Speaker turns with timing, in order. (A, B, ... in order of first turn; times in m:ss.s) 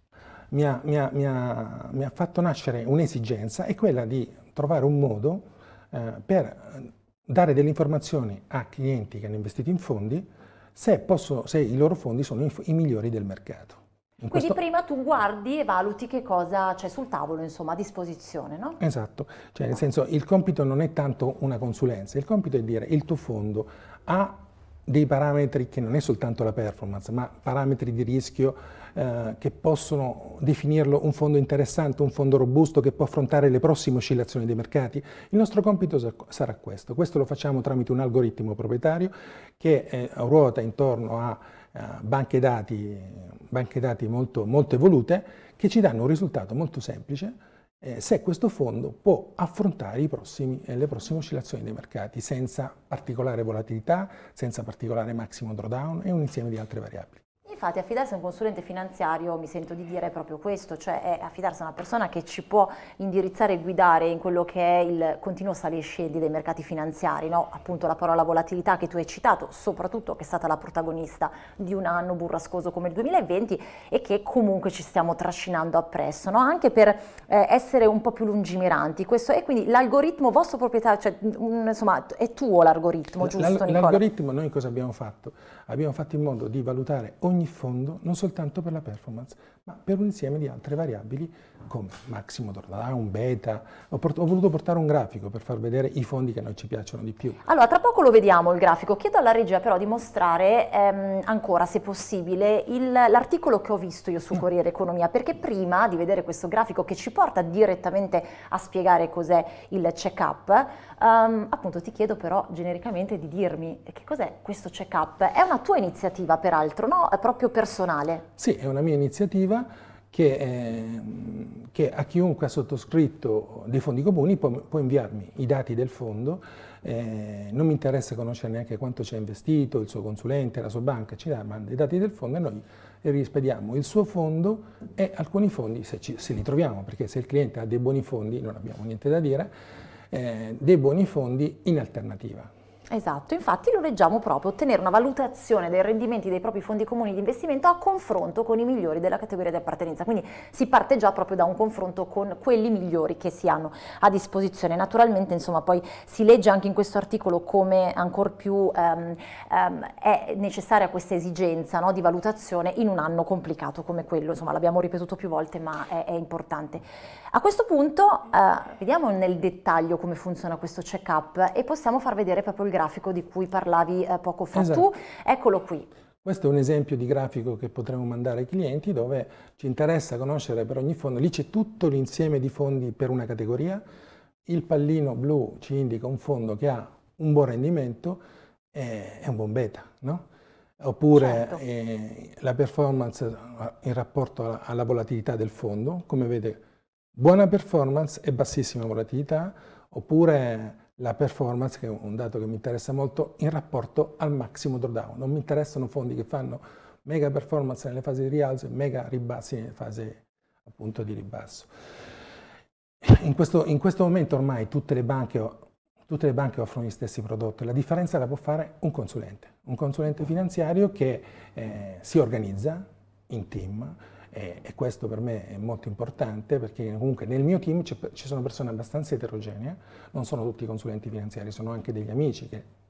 0:00.5-0:14.6 A
0:14.3-0:18.8 B
0:18.8-0:57.2 A
0:57.4-1:24.0 B
1:23.2-1:37.4 A
1:37.4-1:58.2 B
1:58.4-2:19.5 A
2:20.1-2:22.5 A
2:22.9-2:55.9 B
2:54.5-2:54.9 A
2:56.2-3:03.8 A
3:04.4-3:08.2 A
3:08.7-3:10.2 A
3:10.8-3:16.6 A
3:11.2-3:11.6 B
3:17.1-3:31.7 A
3:33.0-3:52.7 A